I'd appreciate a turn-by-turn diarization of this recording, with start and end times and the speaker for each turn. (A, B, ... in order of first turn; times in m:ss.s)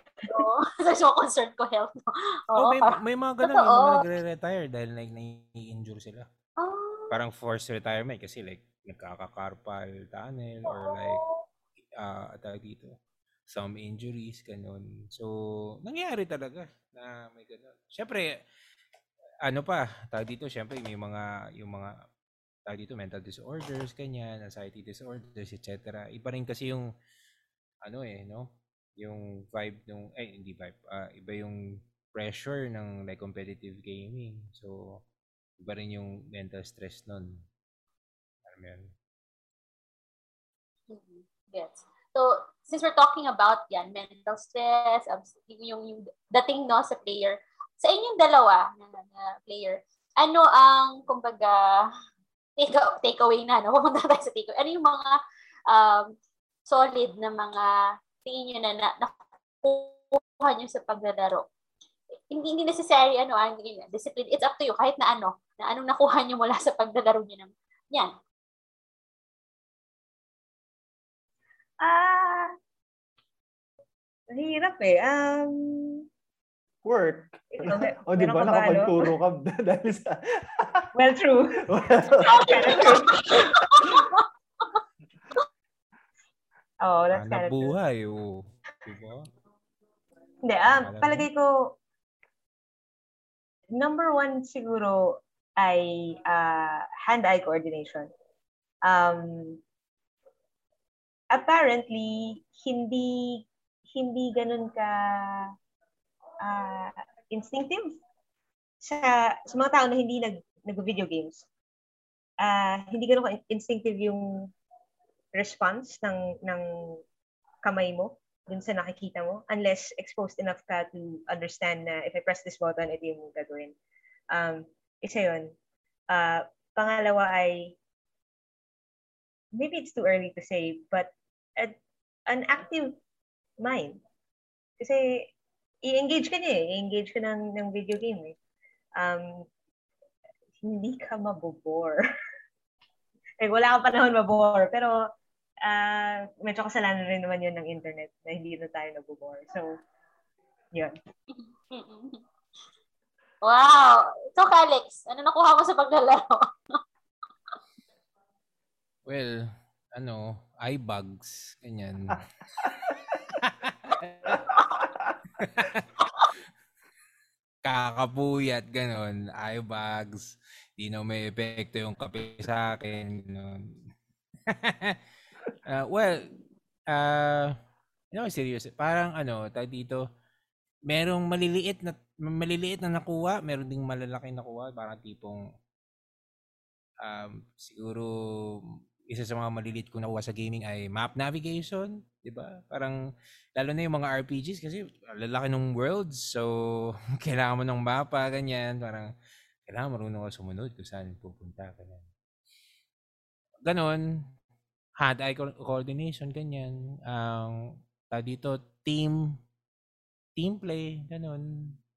0:00.2-0:04.0 A
0:02.5-0:06.3 B
0:06.6-0:07.2 A
0:07.1-0:11.2 B
0:10.6-0:11.4 A
0:12.0-0:12.9 B
0:13.5-0:15.3 B
0:15.8-0:18.4 B
0:19.4-0:21.9 B
0:22.6-0:26.9 B
0:27.8-0:35.0 B
0:35.6-0:37.4 B
0:38.4-0:38.9 B
0:40.9-0:51.9 A
0:52.6-0:55.2 A
0:55.7-0:56.1 A
0:56.7-1:01.4 A
1:02.3-1:08.1 A
1:11.8-1:12.5 C
1:14.3-1:16.0 C
1:16.8-1:20.9 D
1:17.5-1:19.0 C
1:20.9-1:21.7 C
1:21.6-1:23.0 D
1:22.2-1:23.5 C
1:22.5-1:24.2 A
1:26.8-1:27.7 C
1:27.1-1:29.3 B
1:30.4-1:31.8 C
1:30.6-1:31.3 B
1:33.7-1:38.1 C
1:38.8-1:39.6 C
1:41.3-1:45.5 C
1:46.4-1:48.0 C
1:48.8-1:51.4 C
1:52.4-1:54.5 C
1:55.3-1:57.0 C
1:57.6-2:03.7 C
2:04.3-2:05.5 C
2:06.1-2:07.7 C
2:09.5-2:11.7 C
2:12.3-2:13.0 C
2:13.6-2:14.0 C
2:14.8-2:15.3 C
2:15.8-2:18.3 C
2:19.0-2:19.4 C
2:20.6-2:22.0 C
2:23.4-2:25.0 C
2:25.6-2:29.8 C
2:31.3-2:32.2 A
2:33.4-2:36.8 A
2:39.0-2:42.2 B
2:43.4-2:44.6 B
2:44.8-2:45.1 D
2:45.4-2:46.3 B
2:47.6-2:53.7 B
2:54.5-2:55.0 B
2:55.6-2:56.3 B
2:56.9-2:57.5 B
2:58.1-3:00.0 B
3:00.9-3:05.4 B
3:07.0-3:13.0 B
3:13.6-3:16.5 B
3:17.2-3:19.1 B
3:19.7-3:22.1 B
3:23.6-3:24.2 B
3:25.0-3:27.6 B
3:28.1-3:29.4 B
3:30.4-3:31.7 B